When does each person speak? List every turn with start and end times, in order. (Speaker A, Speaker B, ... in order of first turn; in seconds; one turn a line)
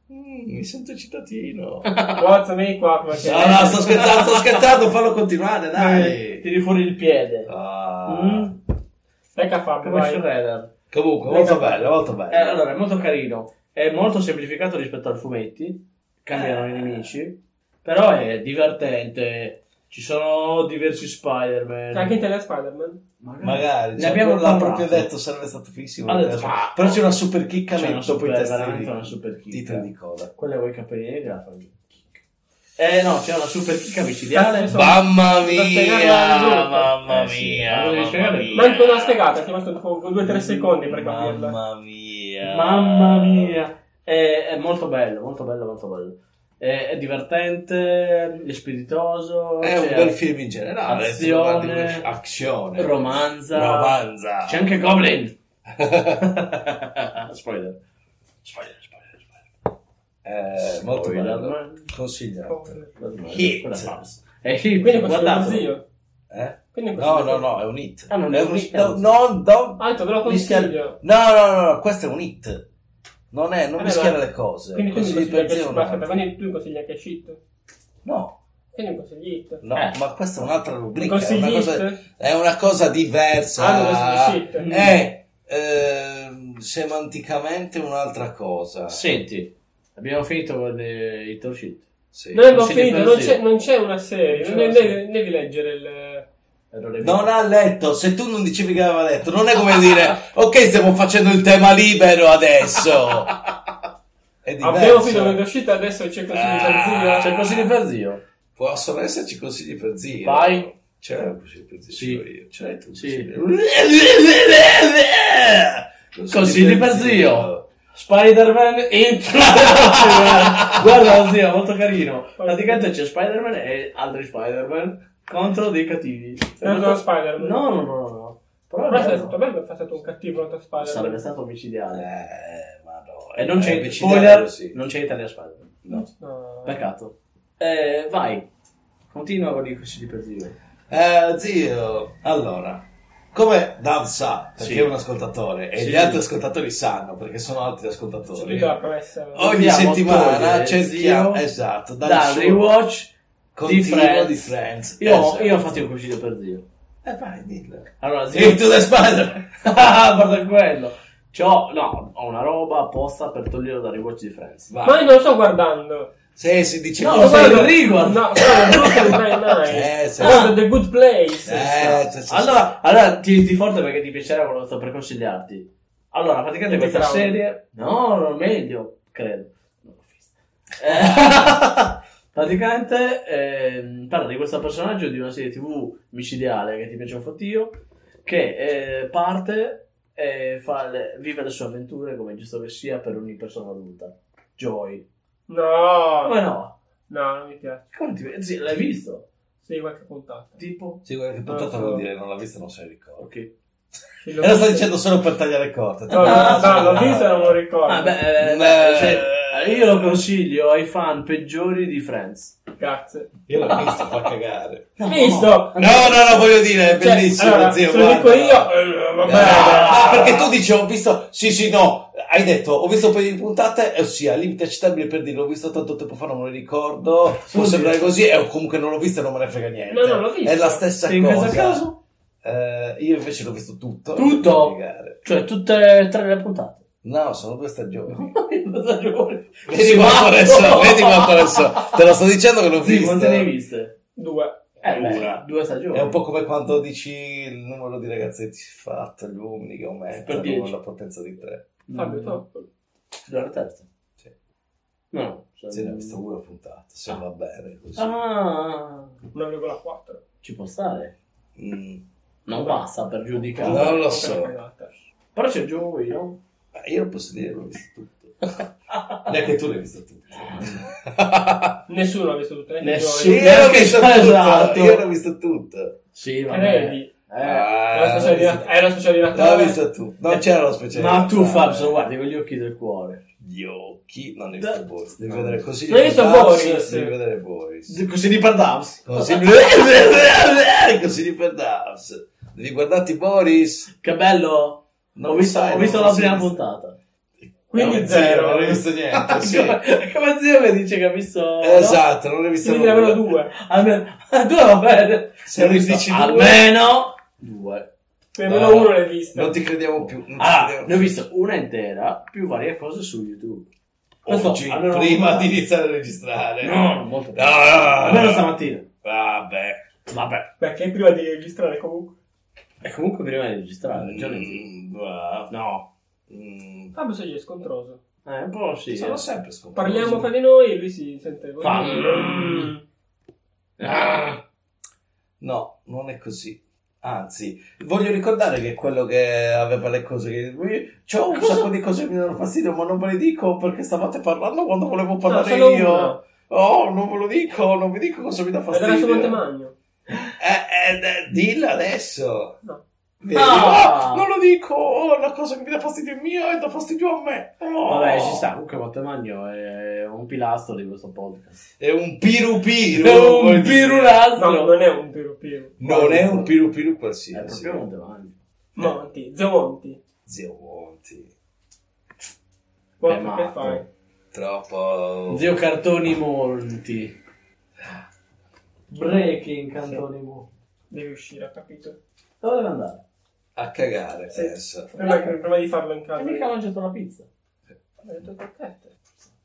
Speaker A: 0.1-1.9
Speaker B: 1.9-2.3
Speaker C: 2.2-3.9
Speaker A: 3.2-6.5
Speaker B: 3.2-4.7
Speaker B: 5.7-7.5
Speaker A: 7.5-8.5
Speaker B: 8.1-8.6
Speaker C: 9.3-10.2
Speaker B: 9.8-10.7
Speaker A: 10.9-12.6
Speaker C: 11.3-11.9
Speaker B: 12.3-22.2
Speaker A: 16.3-17.1
Speaker C: 21.9-23.0
Speaker B: 23.2-25.1
Speaker A: 23.4-30.3
Speaker B: 26.1-27.1
Speaker B: 27.7-32.2
Speaker B: 32.8-34.7
Speaker C: 34.3-37.0
Speaker A: 34.7-39.3
Speaker B: 37.1-38.8
Speaker C: 38.5-41.6
Speaker A: 40.2-43.6
Speaker B: 42.4-50.2
Speaker A: 49.6-54.8
Speaker B: 50.8-52.1
Speaker B: 52.8-55.4
Speaker A: 55.7-56.6
Speaker B: 56.5-57.8
Speaker B: 58.5-59.2
Speaker A: 60.2-64.0
Speaker B: 60.6-61.9
Speaker C: 62.5-63.0
Speaker B: 63.0-65.8
Speaker C: 64.8-65.8
Speaker A: 66.3-72.6
Speaker C: 66.7-67.5
Speaker B: 68.1-69.1
Speaker C: 69.8-71.0
Speaker A: 73.3-76.1
Speaker C: 73.8-74.2
Speaker C: 74.7-77.4
Speaker A: 78.0-78.4
Speaker C: 78.7-79.6
Speaker A: 79.6-89.2
Speaker C: 81.0-82.0
Speaker C: 83.6-84.7
Speaker B: 84.6-85.0
Speaker B: 88.9-91.9
Speaker A: 92.1-92.5
Speaker C: 92.3-96.3
Speaker B: 92.5-93.4
Speaker B: 94.3-95.0
Speaker B: 96.7-97.3
Speaker A: 97.0-103.3
Speaker A: 104.4-105.4
Speaker C: 104.6-107.3
Speaker A: 106.3-107.8
Speaker B: 107.2-108.2
Speaker A: 108.5-113.7
Speaker B: 110.2-110.7
Speaker B: 111.9-112.2
Speaker B: 113.0-129.4
Speaker A: 116.1-117.7
Speaker A: 119.5-121.1
Speaker C: 122.4-122.9
Speaker C: 126.6-127.9
Speaker C: 128.9-131.2
Speaker B: 130.8-132.1
Speaker A: 131.9-134.8
Speaker B: 133.4-135.8
Speaker C: 136.2-136.8
Speaker B: 136.7-138.5
Speaker B: 139.1-140.6
Speaker A: 140.9-148.8
Speaker B: 144.6-144.9
Speaker B: 145.8-146.2
Speaker C: 148.3-149.5
Speaker A: 149.3-152.8
Speaker B: 149.4-151.4
Speaker B: 152.0-153.1
Speaker A: 153.6-155.8
Speaker B: 153.6-156.6
Speaker A: 157.0-159.6
Speaker B: 158.0-158.8
Speaker B: 159.6-164.7
Speaker A: 164.7-165.1
Speaker C: 164.8-166.1
Speaker A: 166.4-167.8
Speaker B: 167.0-169.2
Speaker C: 167.1-172.0
Speaker A: 169.6-170.6
Speaker B: 170.2-170.6
Speaker A: 171.4-172.7
Speaker B: 172.3-195.1
Speaker C: 176.7-177.4
Speaker C: 195.5-196.4
Speaker B: 196.2-196.7
Speaker C: 197.1-197.8
Speaker B: 197.9-199.2
Speaker C: 199.6-200.6
Speaker B: 200.6-201.0
Speaker A: 201.1-203.3
Speaker C: 201.4-202.0
Speaker B: 203.2-203.5
Speaker C: 204.2-204.9
Speaker A: 204.3-207.6
Speaker B: 206.1-207.2
Speaker C: 206.1-208.2
Speaker B: 207.8-212.6
Speaker A: 208.4-210.3
Speaker C: 212.8-213.3
Speaker A: 213.5-214.9
Speaker B: 213.7-214.1
Speaker B: 215.0-216.6
Speaker C: 215.1-215.8
Speaker A: 215.8-231.9
Speaker C: 216.9-220.3
Speaker B: 219.2-220.5
Speaker B: 227.5-228.1
Speaker C: 229.9-230.8
Speaker B: 231.1-232.0
Speaker A: 232.4-235.2
Speaker B: 234.2-236.8
Speaker A: 237.0-238.3
Speaker B: 238.1-242.0
Speaker A: 239.7-243.5
Speaker B: 242.8-243.9
Speaker C: 244.2-244.7
Speaker B: 244.8-246.2
Speaker A: 244.9-251.6
Speaker B: 250.2-250.8
Speaker B: 251.9-252.5
Speaker C: 251.9-252.6
Speaker B: 253.3-253.9
Speaker B: 255.1-256.2
Speaker A: 255.7-258.2
Speaker B: 258.0-259.1
Speaker C: 259.3-260.2
Speaker B: 260.4-261.1
Speaker A: 261.6-262.0
Speaker B: 262.4-264.0
Speaker C: 262.5-262.8
Speaker C: 263.6-264.9
Speaker A: 263.6-264.5
Speaker B: 265.3-266.4
Speaker A: 266.8-268.6
Speaker A: 269.3-271.8
Speaker B: 270.4-270.8
Speaker C: 271.9-273.8
Speaker B: 272.8-275.0
Speaker A: 273.2-275.9
Speaker B: 276.1-277.7
Speaker C: 276.5-277.1
Speaker A: 277.4-278.7
Speaker C: 277.9-279.8
Speaker A: 279.3-282.0
Speaker B: 280.3-283.2
Speaker A: 283.4-288.0
Speaker B: 284.6-285.6
Speaker C: 285.9-287.1
Speaker B: 287.9-289.5
Speaker A: 289.1-293.9
Speaker B: 294.0-297.0
Speaker A: 295.1-296.6
Speaker C: 297.7-298.8
Speaker A: 297.7-299.8
Speaker B: 299.1-302.0
Speaker A: 301.6-303.3
Speaker C: 302.6-303.5
Speaker B: 303.5-307.9
Speaker A: 305.4-306.7
Speaker C: 308.4-309.6
Speaker A: 308.4-311.1
Speaker B: 310.3-313.7
Speaker A: 314.2-319.8
Speaker B: 314.3-315.6
Speaker B: 316.6-318.9
Speaker B: 320.1-320.5
Speaker C: 320.6-322.1
Speaker B: 322.8-324.6
Speaker A: 323.9-325.5
Speaker B: 325.5-325.9
Speaker A: 326.3-326.9
Speaker C: 326.9-328.0
Speaker B: 328.3-329.2
Speaker A: 328.9-330.3
Speaker C: 329.7-332.8
Speaker B: 331.6-332.7
Speaker B: 333.8-334.4
Speaker A: 335.4-349.4
Speaker B: 341.3-341.7
Speaker C: 345.2-346.2
Speaker C: 348.7-349.7
Speaker A: 350.4-352.6
Speaker A: 353.2-358.4
Speaker B: 353.3-354.3
Speaker B: 357.9-361.7
Speaker A: 361.8-364.2
Speaker B: 362.9-364.9
Speaker C: 364.4-365.8
Speaker A: 365.8-367.8
Speaker B: 365.8-366.5
Speaker B: 367.3-368.4
Speaker C: 368.7-370.0
Speaker A: 370.3-371.3
Speaker C: 373.0-373.8
Speaker B: 373.1-373.9
Speaker A: 374.3-375.5
Speaker B: 375.3-377.2
Speaker B: 378.9-380.5
Speaker C: 380.9-382.0
Speaker B: 382.4-383.0
Speaker A: 383.6-384.9
Speaker C: 384.3-386.5
Speaker B: 384.9-385.3
Speaker B: 386.2-387.3
Speaker C: 388.0-388.9